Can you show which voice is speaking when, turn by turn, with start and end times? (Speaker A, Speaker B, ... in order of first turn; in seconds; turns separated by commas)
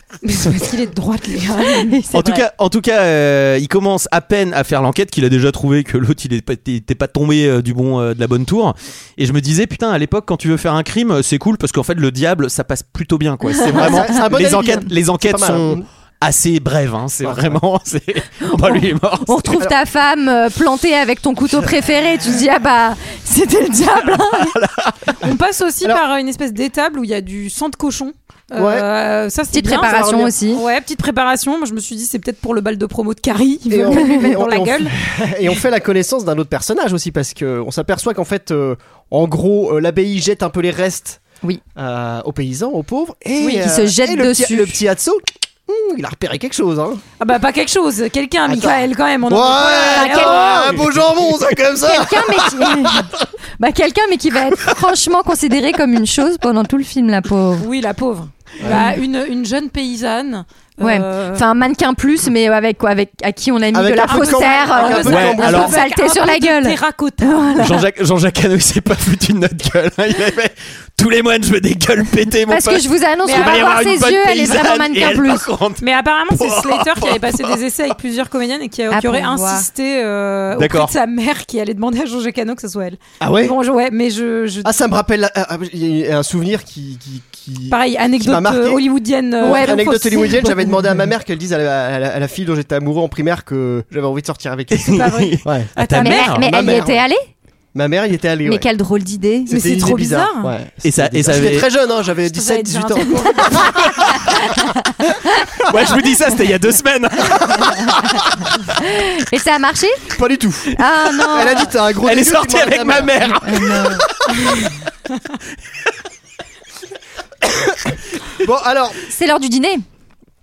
Speaker A: 0.2-1.9, Speaker B: 1.9-2.4, Speaker C: 2.1-19.6, Speaker B: 13.6-14.2, Speaker D: 13.7-15.8, Speaker D: 17.2-17.6, Speaker B: 18.5-24.5, Speaker C: 24.0-25.1, Speaker A: 25.2-34.9, Speaker D: 28.6-28.9, Speaker B: 29.5-30.6, Speaker D: 29.8-30.3, Speaker D: 33.7-41.2, Speaker B: 33.9-34.3, Speaker D: 41.8-47.0, Speaker B: 43.4-44.8, Speaker A: 47.2-50.8, Speaker D: 48.5-53.1, Speaker B: 49.8-50.7, Speaker B: 51.8-57.7, Speaker A: 57.6-61.4, Speaker B: 58.6-59.0, Speaker B: 60.8-67.8, Speaker D: 63.7-65.7, Speaker A: 64.0-67.4, Speaker C: 65.1-65.7, Speaker C: 67.6-77.6, Speaker B: 72.5-75.4, Speaker A: 73.2-73.8, Speaker A: 75.8-84.7, Speaker B: 78.9-79.7, Speaker C: 80.5-80.9, Speaker D: 83.2-83.5, Speaker D: 84.6-88.8, Speaker A: 87.7-90.8, Speaker D: 89.4-95.7, Speaker C: 94.7-96.5, Speaker A: 94.8-96.3, Speaker B: 96.0-97.2, Speaker D: 96.4-97.0, Speaker D: 97.7-98.7, Speaker B: 98.4-99.7, Speaker D: 99.5-104.2, Speaker A: 99.5-100.5, Speaker C: 100.8-101.7, Speaker A: 102.2-103.6, Speaker C: 105.6-108.2, Speaker B: 108.8-110.1, Speaker D: 110.1-113.5, Speaker B: 110.7-111.7, Speaker C: 112.0-114.1, Speaker B: 113.4-114.0, Speaker D: 117.5-119.0, Speaker B: 119.1-119.8